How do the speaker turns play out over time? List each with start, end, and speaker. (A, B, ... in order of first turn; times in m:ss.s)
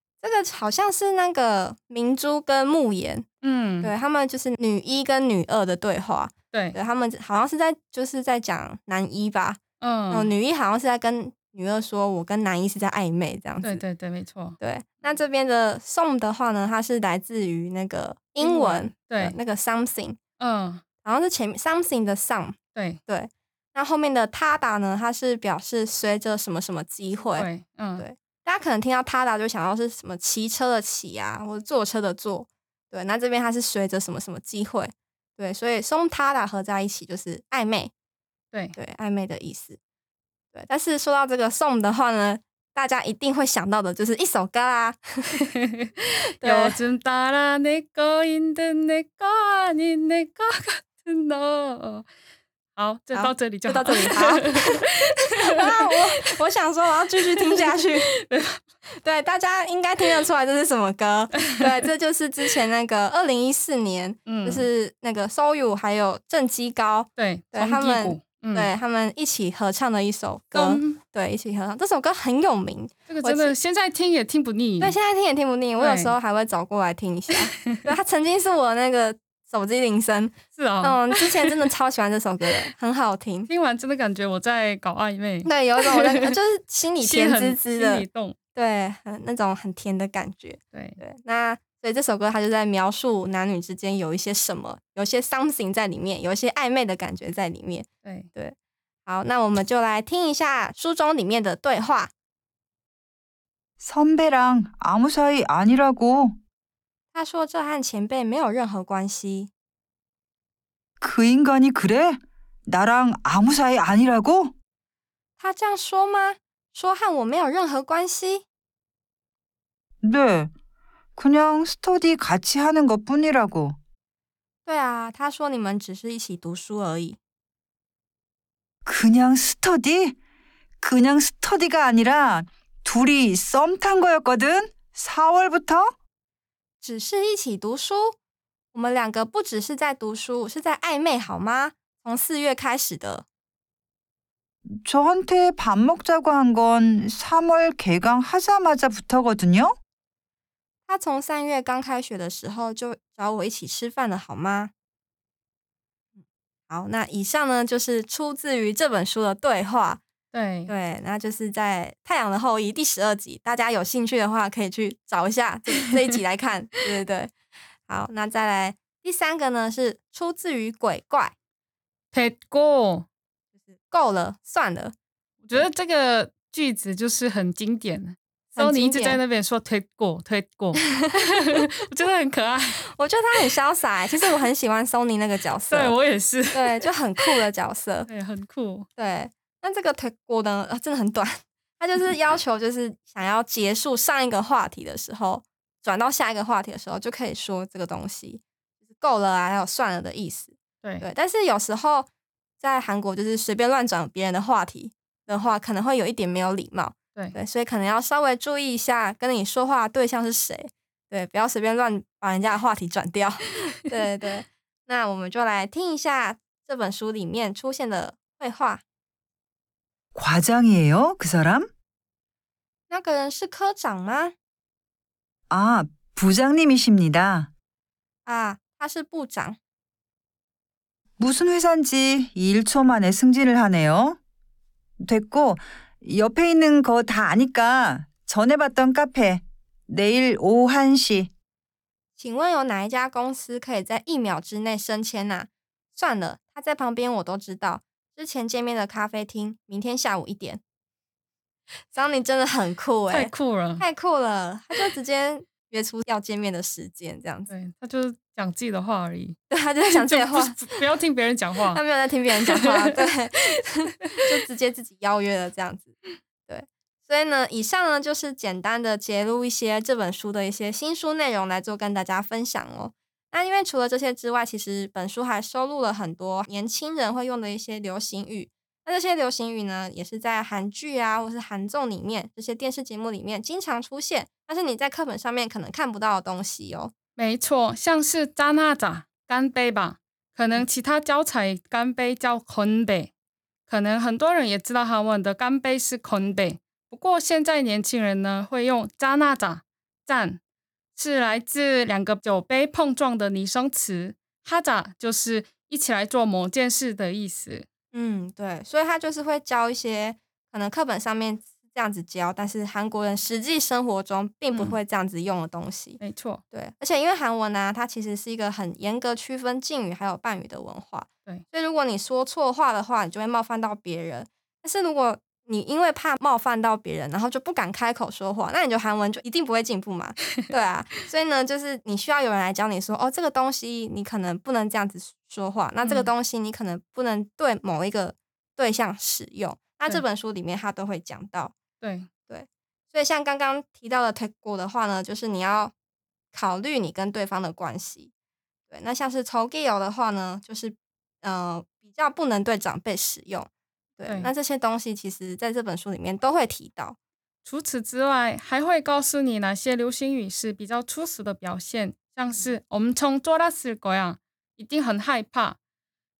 0:00.2-0:03.3 A
0:03.4-0:03.9 B
0:03.8-0:13.8 A
0:09.8-0:10.3 B
0:13.6-0:14.6 B
0:14.6-0:20.2 A
0:18.4-0:19.4 B
0:20.4-0:20.8 B
0:21.0-0:37.9 A
0:22.7-0:23.0 B
0:27.4-0:28.0 B
0:38.8-0:39.8 A
0:40.5-0:45.4 A
0:45.5-0:52.1 B
0:46.4-0:46.8 A
0:52.8-0:56.0 B
0:53.1-0:54.8 A
0:55.4-0:58.1 A
0:57.3-0:58.6 B
0:58.9-1:13.6 A
1:04.3-1:04.6 B
1:07.2-1:08.7 B
1:10.5-1:11.0 B
1:13.1-1:15.0 B
1:14.8-1:23.5 A
1:15.8-1:16.1 B
1:20.6-1:21.6 B
1:23.5-1:26.3 B
1:25.4-1:38.5 A
1:27.0-1:28.4 B
1:30.7-1:31.0 B
1:38.0-1:38.3 B
1:39.0-1:42.1 A
1:43.8-1:46.4 C
1:47.1-1:49.5 A
1:51.0-1:54.5 C
1:55.4-1:58.4 A
2:00.0-2:00.5 C
2:01.2-2:03.8 C
2:04.6-2:07.2 A
2:08.8-2:10.2 C
2:10.8-2:15.9 C
2:16.8-2:18.2 A
2:18.7-2:23.2 A
2:24.8-2:29.7 C
2:30.9-2:34.7 A
2:36.7-2:40.0 A
2:40.3-2:40.7 B
2:40.7-2:47.3 A
2:47.8-2:51.3 A
2:52.1-2:53.0 B
2:53.7-2:54.9 A
2:55.4-3:02.8 B
2:58.6-2:59.2 A
3:02.9-3:05.9 A
3:05.7-3:07.4 B
3:06.5-3:08.1 A
3:08.1-3:08.9 B
3:09.0-3:22.1 A
3:22.6-3:38.8 A
3:40.1-3:41.6 C
3:42.9-3:44.3 A
3:45.5-3:47.5 C
3:48.2-3:49.6 A
3:51.2-3:54.2 C
3:55.0-4:01.3 C
4:02.2-4:10.6 A
4:11.9-4:17.5 A
4:13.1-4:13.8 B
4:17.5-4:19.4 B
4:19.5-4:20.8 A
4:19.9-4:21.8 B
4:21.7-4:46.9 A
4:22.5-4:23.1 B
4:47.2-4:53.1 B
4:53.7-5:00.4 B
5:01.0-5:07.6 B
5:07.9-5:16.0 A
5:14.5-5:14.8 B
5:16.0-5:16.4 B
5:16.5-5:41.5 A
5:35.8-5:36.1 B
5:41.8-5:42.1 B
5:42.3-5:45.7 A
5:46.3-5:48.1 A
5:48.7-5:57.0 A
5:54.0-5:54.3 B
5:57.4-6:05.6 B